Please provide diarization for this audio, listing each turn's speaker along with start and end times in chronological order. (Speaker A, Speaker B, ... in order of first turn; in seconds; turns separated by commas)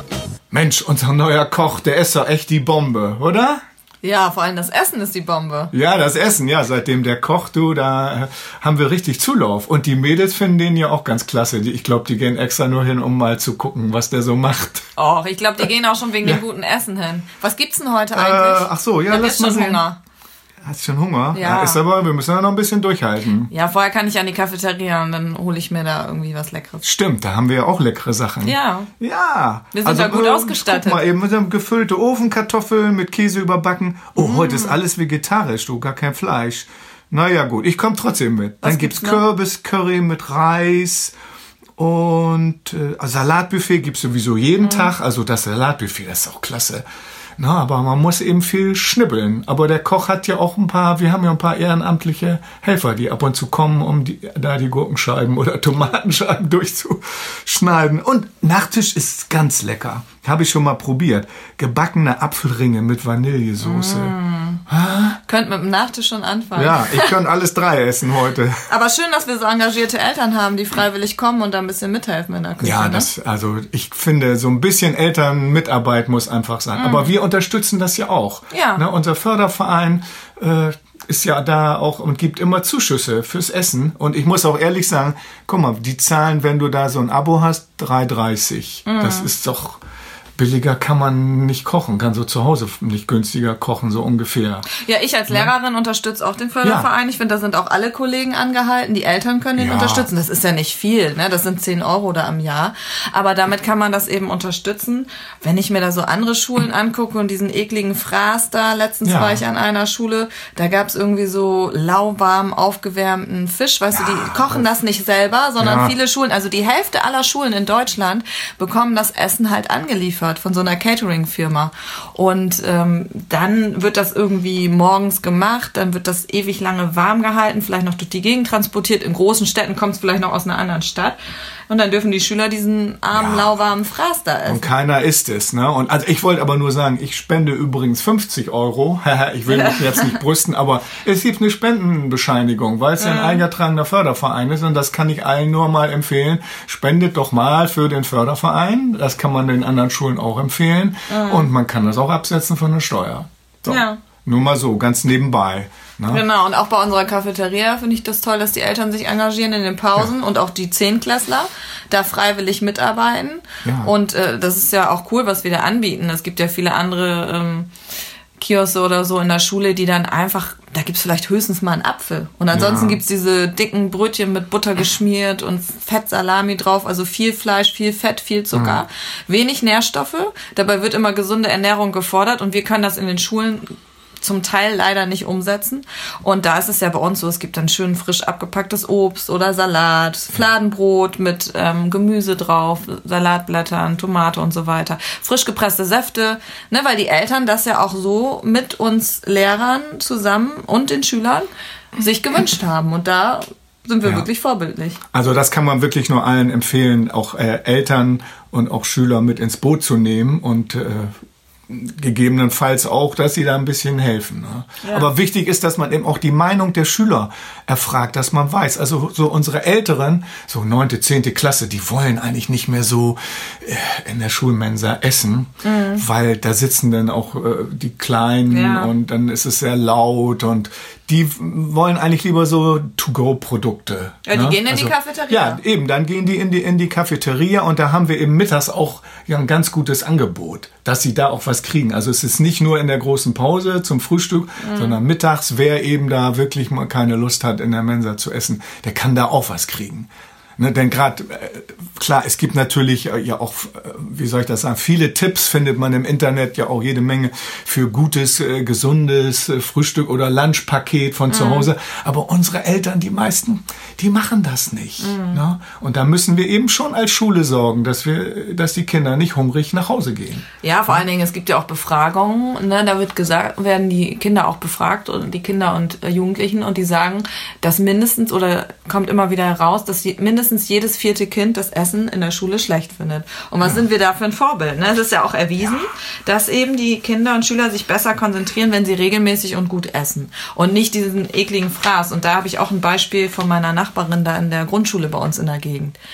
Speaker A: 0.5-3.6, Speaker B: 4.0-5.7, Speaker A: 5.7-14.9, Speaker B: 14.9-20.0, Speaker A: 18.1-19.8, Speaker A: 20.6-23.5, Speaker B: 21.3-21.8, Speaker B: 23.5-26.8, Speaker A: 26.8-41.1, Speaker B: 28.4-28.9, Speaker B: 29.7-31.0, Speaker B: 34.1-34.8, Speaker B: 38.6-39.2, Speaker A: 41.8-46.8, Speaker B: 44.6-44.9, Speaker A: 47.4-64.1, Speaker B: 63.6-64.6, Speaker A: 64.7-65.2, Speaker B: 65.3-67.1, Speaker A: 66.5-68.7, Speaker B: 68.7-73.1, Speaker A: 72.6-89.8, Speaker B: 76.7-77.1, Speaker B: 78.5-78.8, Speaker B: 88.8-89.3, Speaker A: 90.4-94.7, Speaker B: 94.7-131.2, Speaker A: 96.6-96.9, Speaker A: 99.5-100.1, Speaker A: 109.0-109.4, Speaker A: 113.9-114.6, Speaker A: 115.6-115.9, Speaker B: 131.7-134.7, Speaker A: 133.1-133.5, Speaker A: 134.4-156.2, Speaker B: 139.5-140.1, Speaker B: 143.0-143.4, Speaker B: 151.1-151.5, Speaker B: 153.7-154.0, Speaker B: 156.1-167.7, Speaker A: 163.6-163.9, Speaker B: 168.4-205.0, Speaker A: 172.5-173.0, Speaker A: 178.5-178.8, Speaker A: 205.1-211.1, Speaker A: 211.7-271.0, Speaker B: 214.8-215.1, Speaker B: 225.6-226.0, Speaker B: 228.5-228.9, Speaker B: 234.2-235.6, Speaker B: 244.6-245.0, Speaker B: 261.3-261.7, Speaker B: 265.0-265.4, Speaker B: 270.6-296.0